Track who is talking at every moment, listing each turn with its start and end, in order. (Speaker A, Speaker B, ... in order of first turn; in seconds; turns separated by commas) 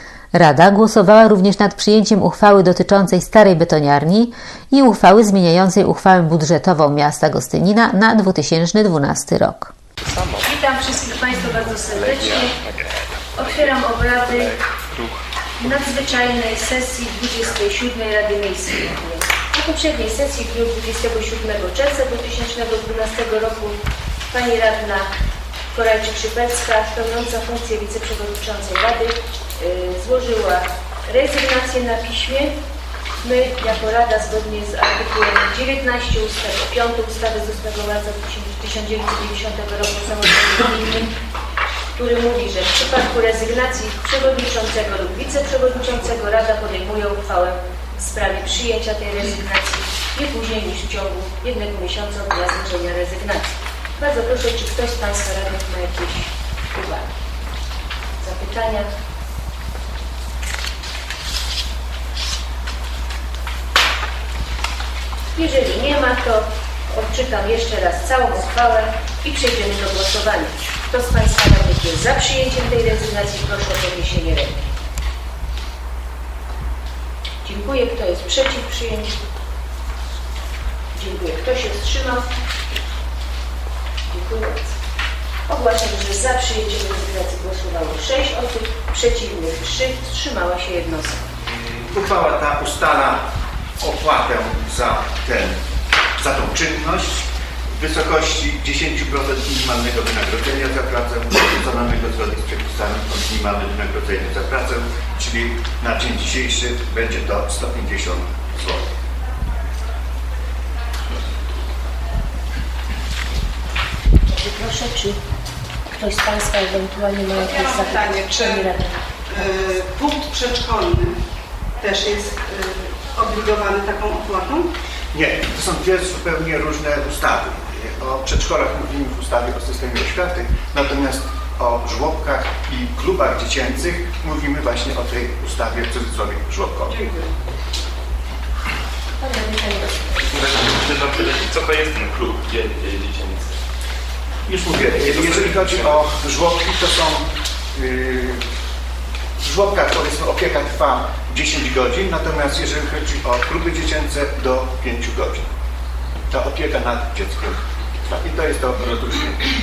Speaker A: 0.3-9.7, Speaker B: 10.4-12.5, Speaker B: 13.3-14.6, Speaker B: 15.6-23.8, Speaker B: 24.3-25.1, Speaker B: 25.7-32.5, Speaker B: 33.2-41.1, Speaker B: 42.0-57.1, Speaker B: 58.2-58.9, Speaker B: 65.3-74.7, Speaker B: 77.4-79.1, Speaker B: 80.9-82.3, Speaker B: 84.1-84.7, Speaker B: 85.5-91.2, Speaker C: 91.8-93.2, Speaker C: 93.8-95.6, Speaker C: 96.2-97.2, Speaker C: 97.8-108.8, Speaker B: 114.3-115.2, Speaker B: 115.9-119.8, Speaker D: 117.3-118.8, Speaker D: 119.3-121.2, Speaker D: 121.8-124.7, Speaker C: 125.1-137.0, Speaker D: 136.9-137.3, Speaker B: 139.2-140.2, Speaker E: 140.3-143.6, Speaker C: 144.5-148.4, Speaker E: 145.0-145.5, Speaker C: 149.4-155.5, Speaker C: 156.3-159.4